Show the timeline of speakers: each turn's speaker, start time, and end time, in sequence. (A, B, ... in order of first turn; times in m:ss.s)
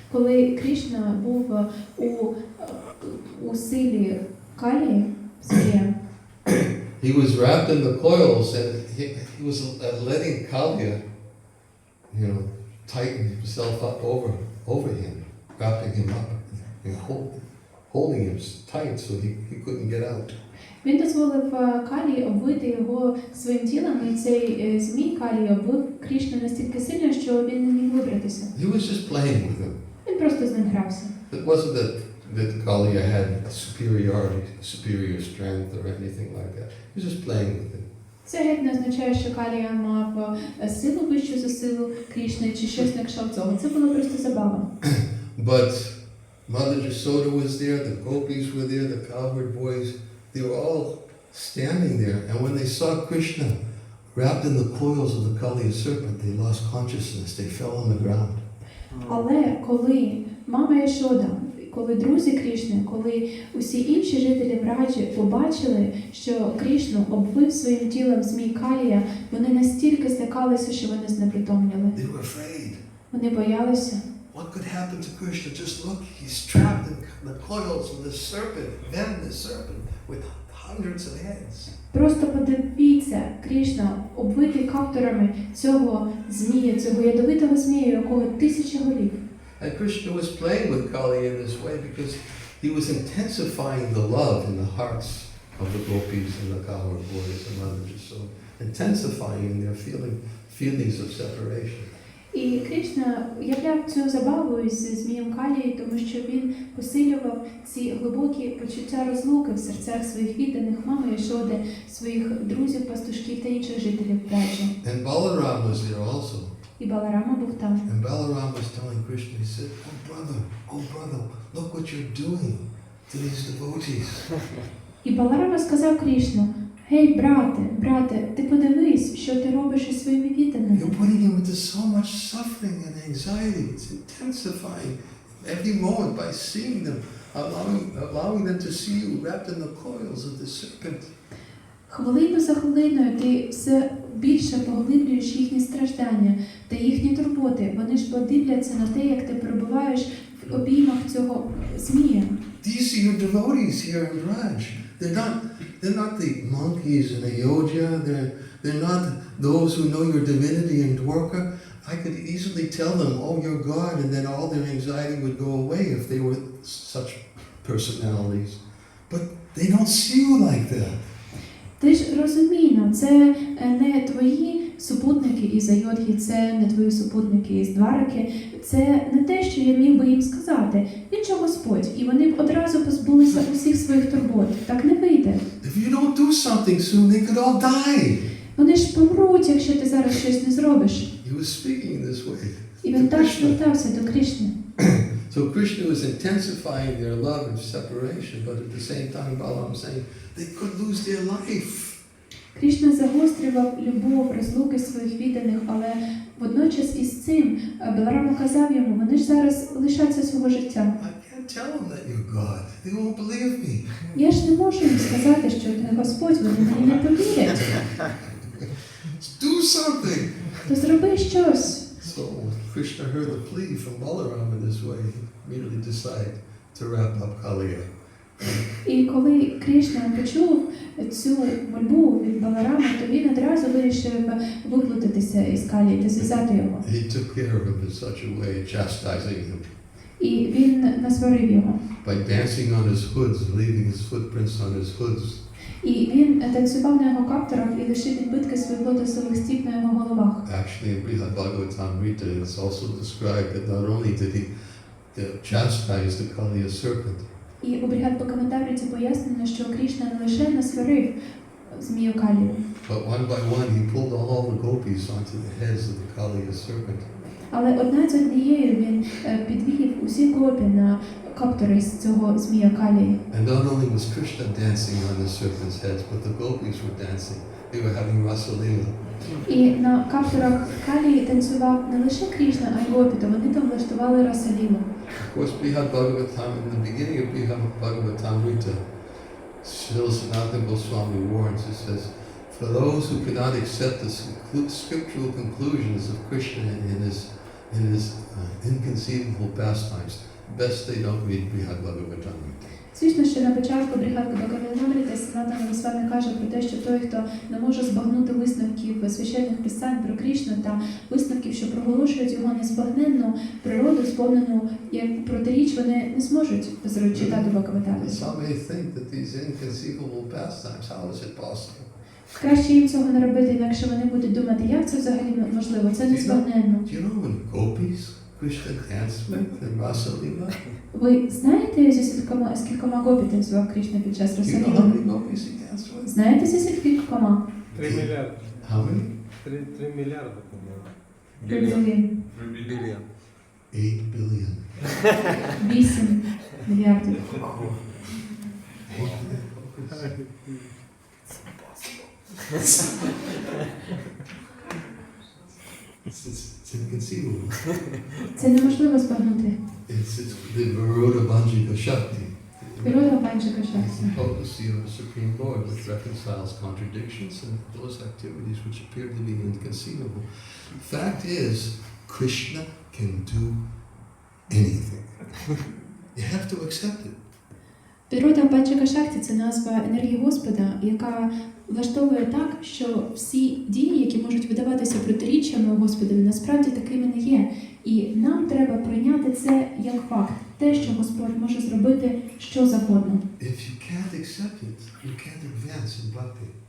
0:00.1-0:06.0 A
0:06.5-0:11.0 B
0:12.1-0:20.4 B
0:20.8-0:28.5 A
0:28.5-0:29.8 B
0:30.0-0:31.1 A
0:31.3-0:37.9 B
0:38.2-0:44.7 A
0:44.8-0:53.6 B
0:54.1-0:58.4 B
0:58.9-0:59.3 C
0:59.0-1:12.0 A
1:11.9-1:12.8 B
1:13.1-1:14.1 A
1:14.3-1:21.8 B
1:21.9-1:29.2 A
1:29.6-1:41.9 B
1:42.3-1:54.7 A
1:54.8-1:56.6 B
1:56.8-1:57.8 A
1:57.8-2:04.4 B
2:05.0-2:10.9 A
2:10.7-2:21.1 B
2:21.9-2:32.4 A
2:32.6-2:51.0 B
2:51.8-3:05.4 A
3:05.6-3:08.3 B
3:08.6-3:11.1 A
3:11.2-3:13.6 B
3:12.8-3:14.6 A
3:14.8-3:22.0 B
3:22.5-3:31.0 A
3:31.0-3:34.1 B
3:34.2-3:37.9 A
3:38.5-3:40.7 B
3:40.6-3:41.9 A
3:42.0-3:48.6 B
3:48.8-3:56.8 A
3:56.2-3:59.7 B
4:00.2-4:01.8 A
4:02.0-4:05.4 B
4:05.8-4:10.4 A
4:10.4-4:14.5 B
4:15.1-4:17.3 B
4:17.6-4:21.2 A
4:21.7-4:22.6 A
4:22.8-4:27.1 B
4:27.5-4:33.2 A
4:33.3-4:39.1 B
4:39.4-4:44.9 A
4:45.2-4:48.8 B
4:49.6-5:02.7 B
5:02.9-5:18.2 A
5:17.1-5:21.9 B
5:22.4-5:26.9 A
5:26.1-5:30.6 B
5:30.9-5:35.0 A
5:34.4-5:36.2 B
5:36.1-5:37.4 A
5:37.7-5:38.6 C
5:37.8-5:38.1 B
5:38.6-5:39.1 B
5:39.4-5:43.0 C
5:41.5-5:42.1 A
5:43.7-5:44.9 B
5:45.6-5:47.4 A
5:47.4-5:47.8 C
5:48.9-5:50.1 B
5:49.9-5:50.7 C
5:56.1-5:57.9 B
5:58.3-5:59.6 A
5:59.9-6:03.2 B
6:02.8-6:04.2 A
6:03.7-6:13.6 B
6:14.5-6:15.3 B
6:16.1-6:17.2 B
6:18.1-6:33.2 A
6:33.4-6:36.5 B